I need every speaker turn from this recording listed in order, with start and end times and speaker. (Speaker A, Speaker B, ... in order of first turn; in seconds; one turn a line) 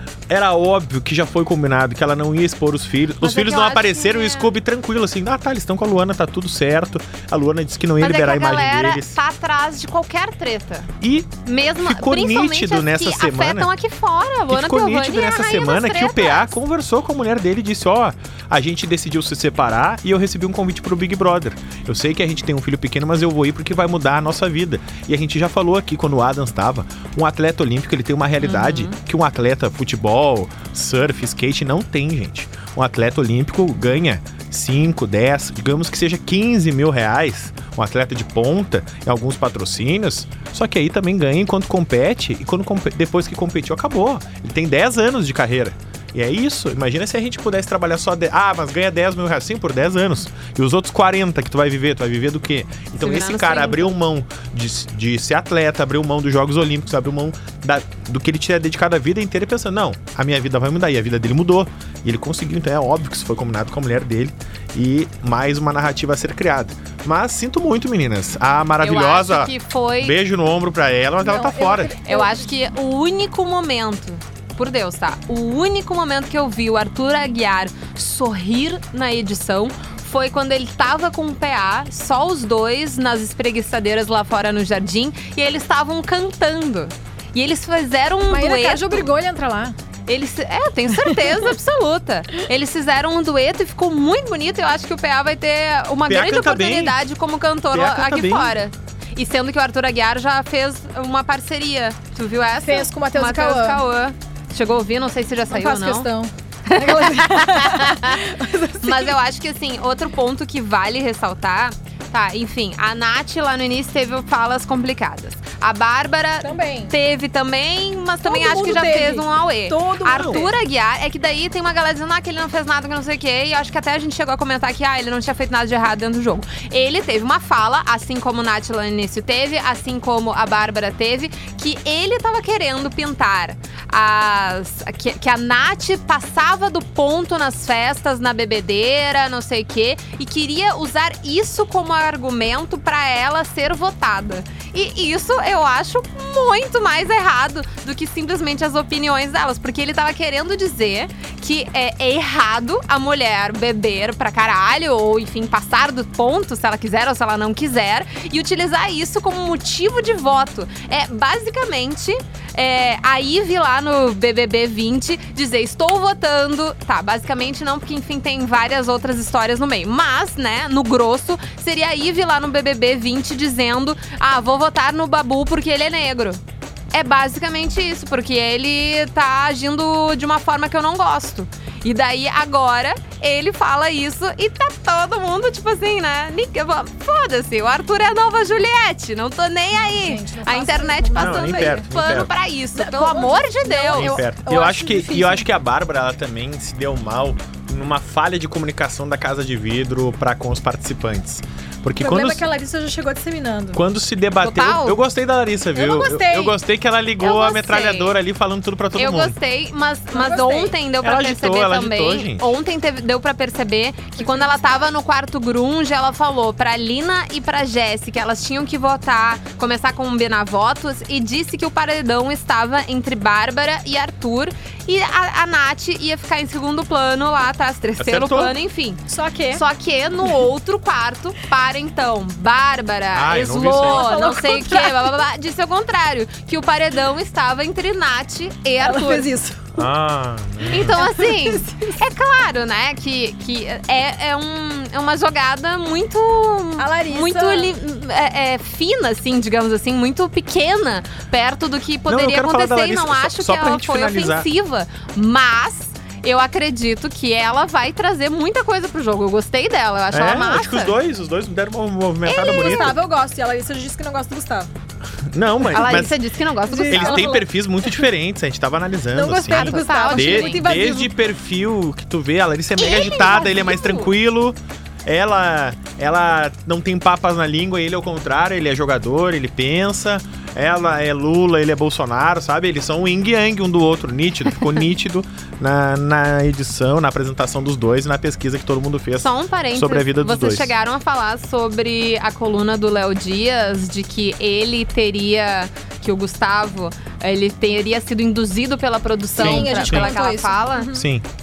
Speaker A: 0.3-9.2
Speaker B: 3.2-4.5
Speaker B: 8.0-10.9
Speaker A: 11.0-13.7
Speaker B: 11.4-16.6
Speaker A: 14.5-71.9
Speaker B: 28.4-28.9
Speaker B: 52.9-53.9
Speaker B: 68.8-70.2
Speaker C: 71.2-72.5
Speaker B: 72.0-89.0
Speaker C: 88.3-89.8
Speaker B: 90.1-106.1
Speaker C: 91.0-91.3
Speaker A: 96.1-97.0
Speaker A: 97.7-98.6
Speaker C: 102.6-103.8
Speaker C: 105.5-109.2
Speaker B: 106.7-108.2
Speaker B: 108.8-176.4
Speaker C: 116.4-116.9
Speaker C: 118.2-120.5
Speaker A: 120.1-120.5
Speaker B: 176.9-194.2
Speaker C: 189.7-192.2
Speaker A: 191.2-192.3
Speaker C: 192.7-195.4
Speaker A: 193.9-202.4
Speaker C: 202.0-203.8
Speaker A: 203.7-209.3
Speaker B: 204.4-205.0
Speaker C: 205.7-206.5
Speaker B: 207.2-208.1
Speaker B: 209.0-229.0
Speaker C: 210.1-210.7
Speaker A: 211.0-212.5
Speaker C: 214.2-214.9
Speaker A: 228.0-228.5
Speaker C: 229.1-229.6
Speaker B: 229.5-239.3
Speaker A: 233.1-234.1
Speaker C: 233.7-235.2
Speaker C: 238.8-239.9
Speaker A: 239.8-241.0
Speaker B: 240.7-260.9
Speaker C: 240.8-241.9
Speaker C: 246.8-247.7
Speaker A: 252.1-254.4
Speaker A: 260.1-262.9
Speaker B: 262.2-262.9
Speaker C: 262.3-264.7
Speaker A: 265.3-266.1
Speaker B: 265.7-267.4
Speaker C: 266.7-267.4
Speaker A: 266.9-290.7
Speaker C: 269.1-271.1
Speaker B: 269.2-270.6
Speaker B: 272.8-274.1
Speaker B: 289.2-300.9
Speaker C: 299.4-301.0
Speaker A: 299.4-300.1
Speaker A: 300.9-301.2